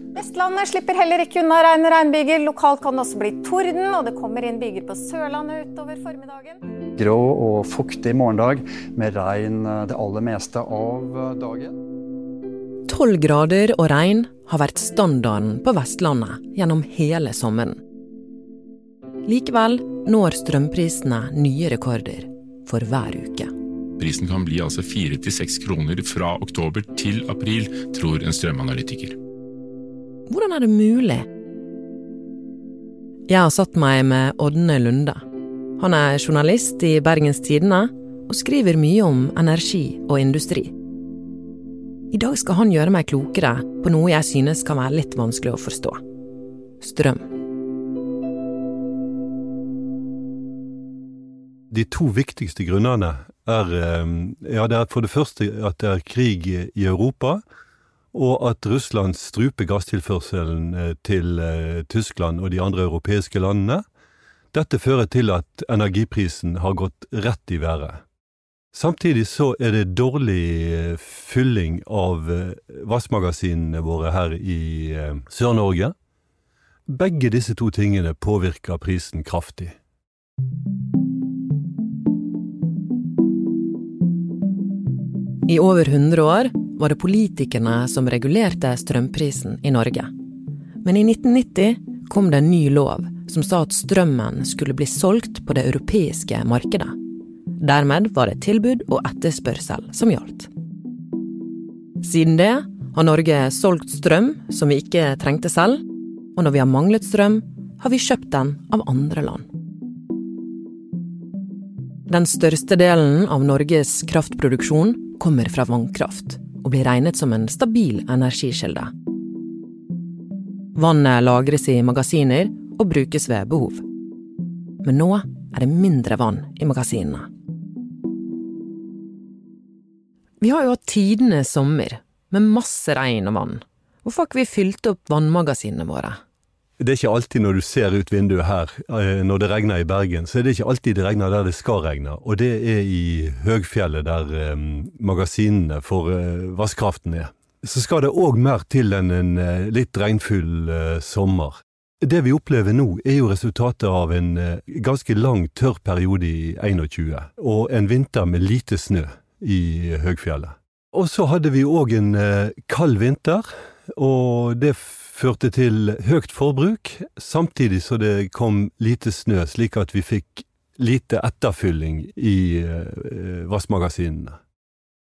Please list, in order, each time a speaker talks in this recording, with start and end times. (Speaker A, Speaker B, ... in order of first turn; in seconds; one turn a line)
Speaker A: 0.1-6.6
Speaker B: 7.0-11.7
Speaker C: 12.9-17.8
Speaker C: 19.2-23.5
Speaker D: 24.0-29.2
Speaker C: 30.3-31.3
Speaker C: 33.3-35.2
Speaker C: 35.8-40.7
Speaker C: 42.1-46.0
Speaker C: 46.8-47.3
Speaker E: 51.7-57.4
Speaker E: 58.1-63.8
Speaker E: 64.5-68.0
Speaker E: 68.7-75.9
Speaker E: 76.9-79.8
Speaker C: 85.5-90.1
Speaker C: 90.8-96.9
Speaker C: 97.6-100.5
Speaker C: 102.0-109.5
Speaker C: 112.1-118.9
Speaker C: 120.7-123.8
Speaker C: 124.8-127.3
Speaker C: 130.4-136.2
Speaker E: 136.8-174.4